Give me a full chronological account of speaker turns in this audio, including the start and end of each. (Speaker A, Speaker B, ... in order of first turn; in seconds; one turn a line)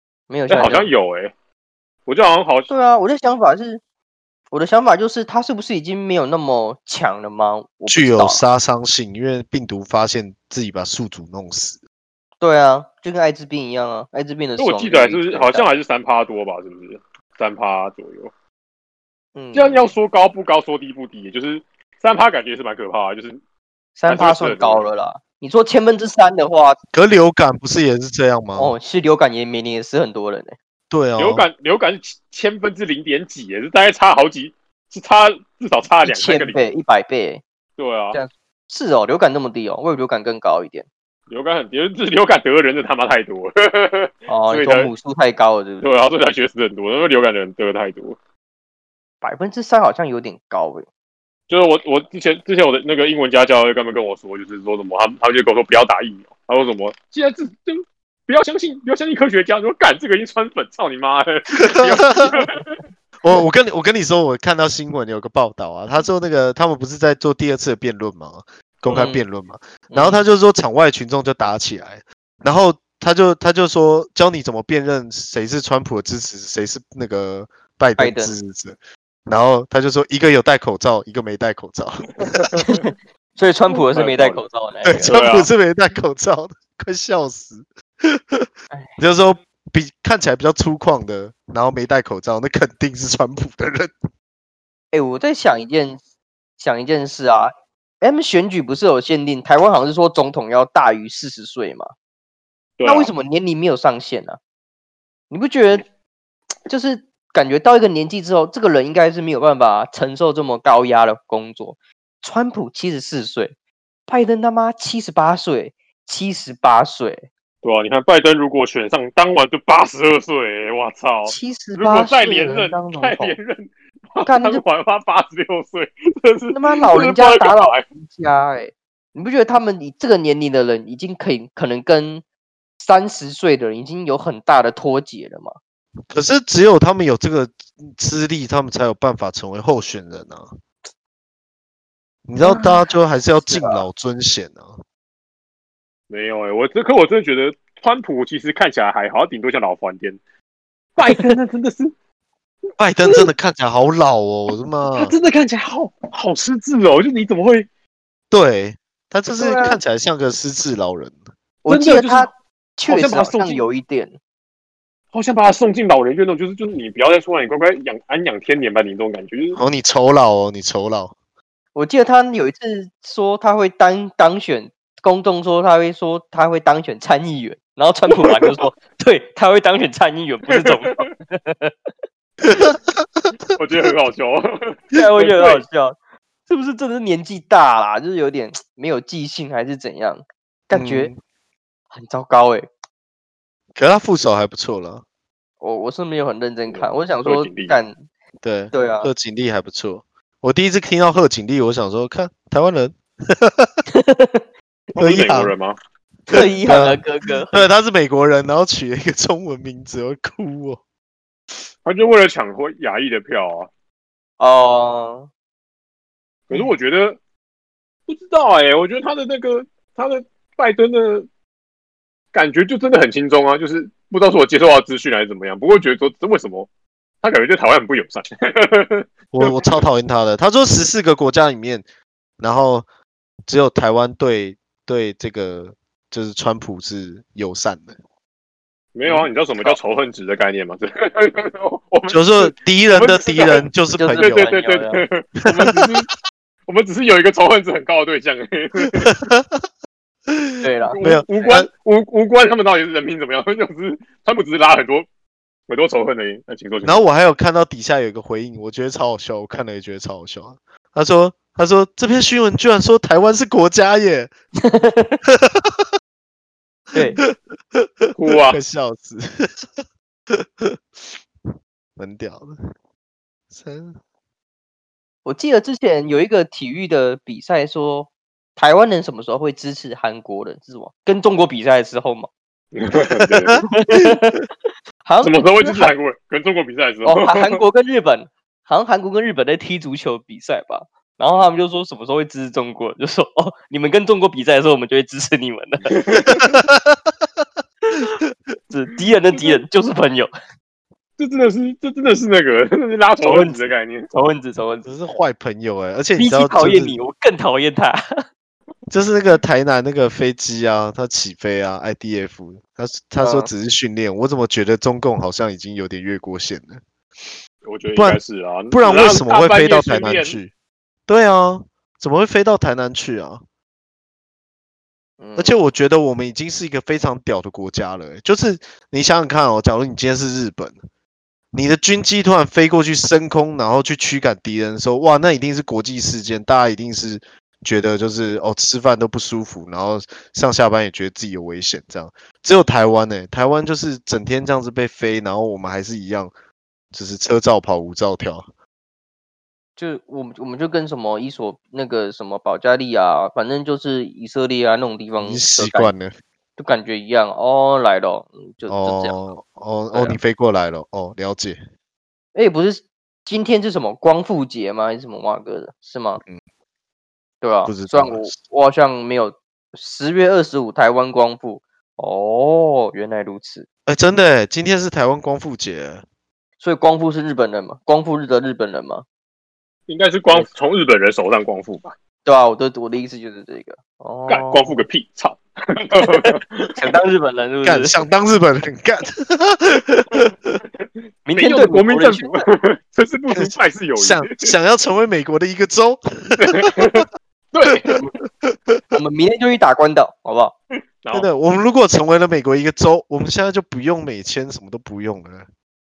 Speaker A: 0.3-0.9
Speaker B: 0.5-1.3
Speaker B: 2.1-2.7
Speaker A: 2.7-3.8
Speaker A: 4.5-8.4
Speaker C: 7.9-11.8
Speaker A: 12.4-15.7
Speaker B: 14.6-18.3
Speaker A: 19.3-19.9
Speaker B: 19.5-23.4
Speaker A: 23.9-26.8
Speaker B: 24.1-24.8
Speaker C: 26.9-28.7
Speaker A: 28.6-30.5
Speaker C: 30.9-31.4
Speaker B: 31.2-36.6
Speaker A: 36.0-37.4
Speaker B: 37.8-38.2
Speaker A: 38.1-40.9
Speaker B: 41.3-44.9
Speaker A: 44.3-45.8
Speaker B: 45.8-48.2
Speaker A: 49.2-50.9
Speaker B: 51.5-62.8
Speaker C: 61.6-62.3
Speaker C: 63.2-82.5
Speaker A: 68.9-69.2
Speaker A: 69.9-70.2
Speaker A: 78.0-78.3
Speaker B: 82.2-82.8
Speaker A: 82.6-85.2
Speaker B: 83.7-84.4
Speaker C: 84.8-93.9
Speaker B: 85.0-85.5
Speaker A: 94.9-96.0
Speaker A: 96.6-101.9
Speaker B: 102.8-103.1
Speaker A: 102.8-104.4
Speaker A: 105.3-105.8
Speaker A: 106.7-113.5
Speaker A: 114.1-117.3
Speaker B: 117.6-127.8
Speaker A: 121.3-123.3
Speaker A: 124.2-124.6
Speaker A: 126.5-132.2
Speaker A: 132.8-135.6
Speaker C: 136.1-140.6
Speaker C: 142.3-144.8
Speaker A: 142.4-142.8
Speaker A: 143.4-143.8
Speaker B: 146.1-150.2
Speaker B: 150.9-151.9
Speaker A: 151.1-151.3
Speaker C: 152.8-155.1
Speaker B: 154.9-157.7
Speaker C: 158.3-161.2
Speaker A: 159.4-159.8
Speaker A: 161.6-164.1
Speaker B: 161.7-162.3
Speaker B: 162.8-163.6
Speaker B: 165.1-169.6
Speaker C: 169.6-171.1
Speaker A: 171.7-181.7
Speaker B: 180.5-181.1
Speaker C: 182.4-183.2
Speaker B: 183.5-185.6
Speaker A: 184.9-185.9
Speaker A: 186.5-191.1
Speaker C: 190.7-191.2
Speaker A: 191.9-192.7
Speaker C: 193.7-195.0
Speaker A: 195.6-197.9
Speaker B: 196.7-197.8
Speaker C: 198.4-203.8
Speaker A: 198.7-199.1
Speaker A: 203.9-204.4
Speaker B: 204.9-205.8
Speaker C: 205.0-205.5
Speaker A: 206.3-207.6
Speaker C: 206.3-210.8
Speaker B: 211.8-213.7
Speaker A: 214.4-215.3
Speaker B: 216.5-217.2
Speaker B: 218.1-221.3
Speaker B: 222.3-226.7
Speaker B: 227.2-229.8
Speaker C: 229.3-231.8
Speaker C: 232.4-232.8
Speaker C: 233.5-237.9
Speaker B: 238.9-243.6
Speaker A: 239.0-239.8
Speaker C: 242.1-244.5
Speaker A: 244.0-245.0
Speaker B: 244.2-246.1
Speaker C: 245.5-245.9
Speaker B: 246.7-249.1
Speaker C: 248.8-249.7
Speaker C: 250.3-251.7
Speaker A: 250.6-251.5
Speaker B: 250.9-255.1
Speaker B: 255.7-257.0
Speaker C: 256.8-264.3
Speaker A: 264.6-265.2
Speaker C: 265.2-265.9
Speaker A: 266.9-267.2
Speaker C: 266.9-272.7
Speaker B: 268.1-268.6
Speaker C: 273.5-274.0
Speaker A: 275.2-282.3
Speaker B: 282.7-283.6
Speaker C: 283.2-283.6
Speaker A: 283.6-284.4
Speaker A: 285.0-285.9
Speaker B: 285.2-287.6
Speaker A: 287.0-296.4
Speaker B: 295.9-296.5
Speaker C: 296.4-297.4
Speaker A: 297.8-298.1
Speaker A: 298.7-300.3
Speaker B: 301.2-304.1
Speaker A: 303.2-304.9
Speaker C: 304.8-307.0
Speaker A: 306.2-308.0
Speaker C: 308.9-317.4
Speaker A: 313.2-313.5
Speaker B: 317.6-320.4
Speaker C: 318.7-320.5
Speaker C: 321.1-323.4
Speaker A: 325.2-325.6
Speaker C: 325.4-330.8
Speaker C: 331.5-346.3
Speaker C: 346.9-348.5
Speaker A: 349.8-355.9
Speaker C: 355.2-356.1
Speaker A: 356.6-359.2
Speaker C: 358.7-361.6
Speaker A: 359.9-360.2
Speaker A: 362.3-366.2
Speaker A: 367.4-373.6
Speaker C: 367.7-368.4
Speaker C: 373.9-376.0
Speaker A: 376.6-379.0
Speaker B: 379.9-381.9
Speaker A: 382.2-384.7
Speaker B: 384.3-386.8
Speaker A: 386.0-387.9
Speaker C: 387.6-390.6
Speaker A: 391.2-392.4
Speaker B: 391.3-394.5
Speaker C: 393.3-397.0
Speaker B: 396.4-398.0
Speaker C: 398.4-399.0
Speaker A: 398.9-400.5
Speaker B: 401.0-401.3
Speaker C: 401.1-405.5